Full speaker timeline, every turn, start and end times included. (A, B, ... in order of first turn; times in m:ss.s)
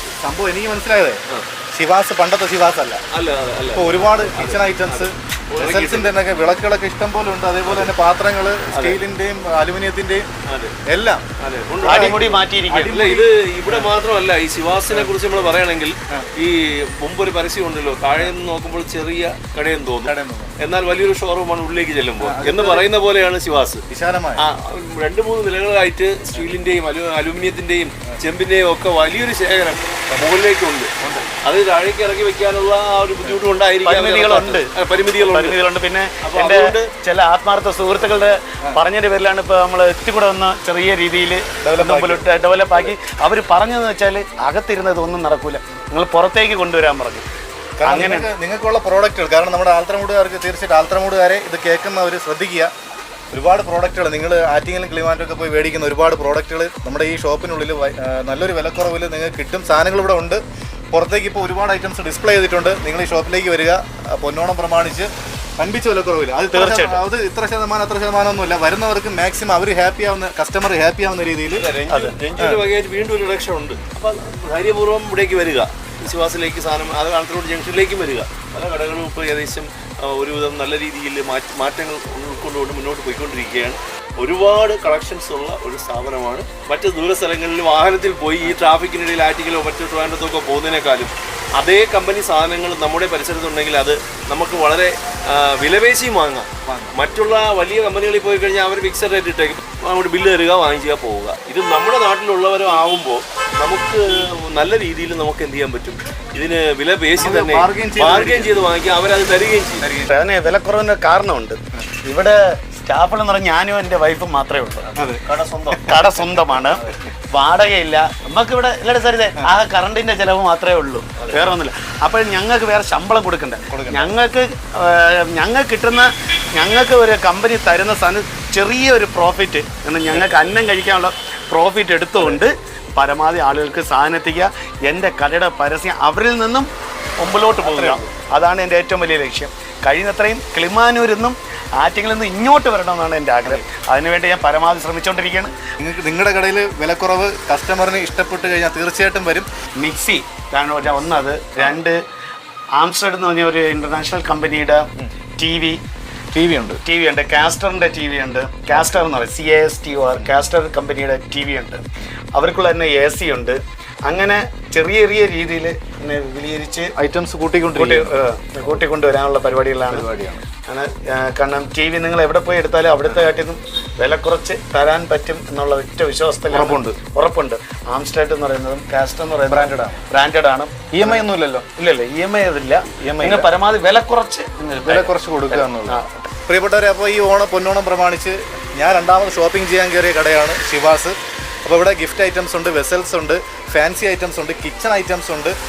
0:00.2-0:01.2 A
0:01.7-0:03.0 A
0:03.1-0:06.2 B
0:03.7-0:10.2 A
0:08.7-0:09.0 B
0:10.5-0:10.8 B
0:10.9-0:11.2 A
0:11.4-0:23.8 B
0:11.8-0:13.2 C
0:11.8-0:12.2 A
0:13.7-0:13.9 A
0:20.0-0:20.6 A
0:22.2-0:22.9 A
0:23.9-0:24.4 A
0:24.4-0:35.6 B
0:33.8-0:47.2 C
0:36.2-0:36.9 B
0:41.6-0:42.2 A
0:47.8-0:52.7 A
0:47.8-0:48.3 C
0:53.3-1:00.4 A
1:00.9-1:11.7 A
1:06.5-1:07.0 C
1:11.5-1:49.8 B
1:11.9-1:12.2 C
1:12.4-1:12.6 A
1:36.7-1:37.0 A
1:47.2-1:48.5 A
1:49.8-1:50.1 A
1:50.1-1:54.9 C
1:54.9-1:56.0 B
1:55.7-2:16.7 C
2:03.7-2:04.1 A
2:17.2-2:25.5 C
2:17.6-2:18.1 A
2:25.8-2:29.5 A
2:29.8-2:32.0 C
2:32.8-2:35.8 C
2:36.3-2:36.8 A
2:36.8-2:41.8 C
2:38.7-2:39.0 A
2:42.3-2:46.9 C
2:47.0-2:48.1 A
2:47.8-2:50.1 C
2:49.9-2:50.4 A
2:50.6-3:06.1 C
2:56.5-2:57.0 A
2:59.5-3:00.0 A
3:00.9-3:01.7 A
3:03.0-3:03.5 A
3:04.8-3:15.6 A